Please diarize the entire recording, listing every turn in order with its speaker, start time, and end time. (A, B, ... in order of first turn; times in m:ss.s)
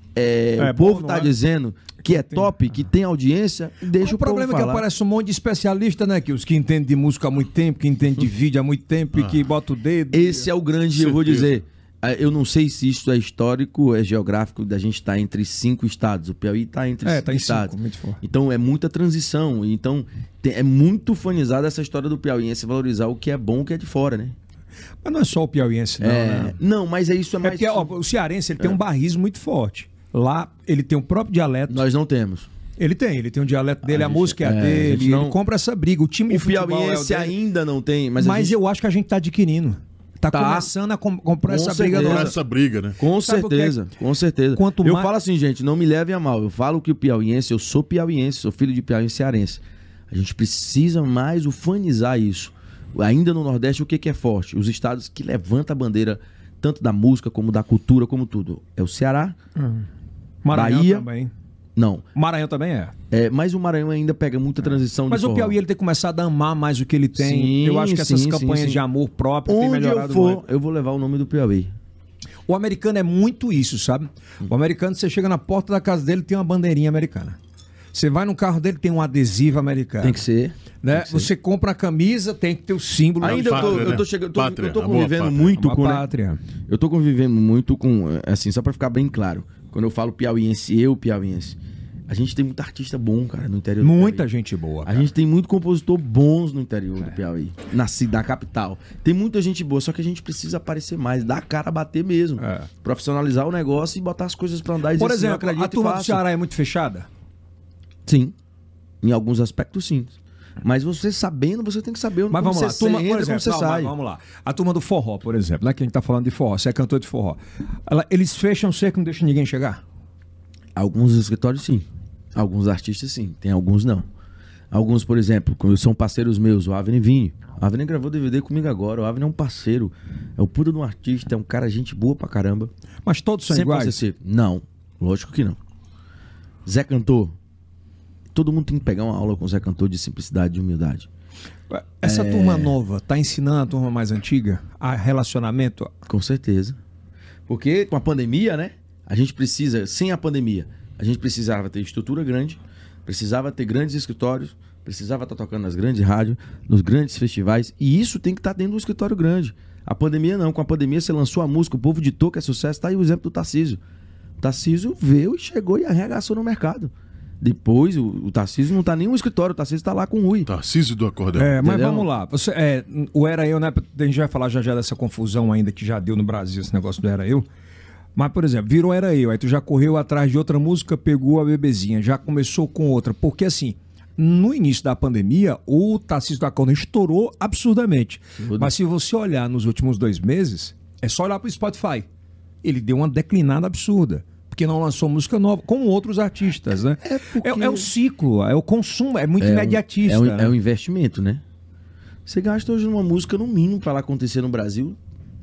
0:00.2-0:04.8 A
0:00.6-0:01.3 B
0:02.0-0:02.5 B
0:04.0-0:10.5 B
0:10.1-0:24.4 A
0:11.1-0:11.4 B
0:17.0-0:18.2 B
0:25.0-0:26.6 B
0:26.0-0:27.9 A
0:27.4-0:31.8 B
0:31.7-0:32.5 A
0:32.8-0:37.3 B
0:33.8-0:35.4 A
0:36.3-0:38.6 A
0:38.2-0:42.3 B
0:40.3-0:40.7 A
0:41.4-0:42.4 A
0:41.9-0:43.0 C
0:43.0-0:59.4 A
0:43.2-0:43.8 B
0:44.5-0:45.1 B
0:59.6-0:59.9 B
1:00.4-1:01.3 B
1:00.5-1:01.1 A
1:01.8-1:02.1 A
1:02.2-1:02.9 B
1:03.1-1:05.6 A
1:05.1-1:10.4 B
1:07.2-1:08.8 A
1:09.5-1:11.7 A
1:12.5-1:17.4 B
1:17.9-1:20.2 B
1:20.0-1:21.3 A
1:20.8-1:24.0 B
1:23.2-1:26.1 A
1:23.2-1:25.6 C
1:25.6-1:26.4 B
1:26.7-1:31.6 A
1:32.1-1:34.3 A
1:33.8-1:35.1 B
1:34.8-1:46.2 A
1:42.4-1:42.7 B
1:45.0-1:47.1 B
1:48.1-1:48.4 A
1:49.0-1:53.9 A
1:52.3-1:59.8 B
2:00.8-2:04.1 A
2:04.7-2:12.7 A
2:13.0-2:14.0 B
2:13.5-2:15.6 A
2:16.7-2:17.4 A
2:18.3-2:21.1 A
2:21.7-2:25.9 B
2:22.0-2:22.8 A
2:26.1-2:26.8 A
2:27.5-2:43.8 A
2:44.4-2:50.5 A
2:50.5-2:51.5 C
2:51.4-2:57.5 B
2:51.6-2:52.1 A
2:58.2-3:12.1 B
3:08.4-3:08.8 A
3:12.6-3:20.5 B
3:17.0-3:17.9 A
3:19.4-3:21.4 A
3:22.3-3:25.0 A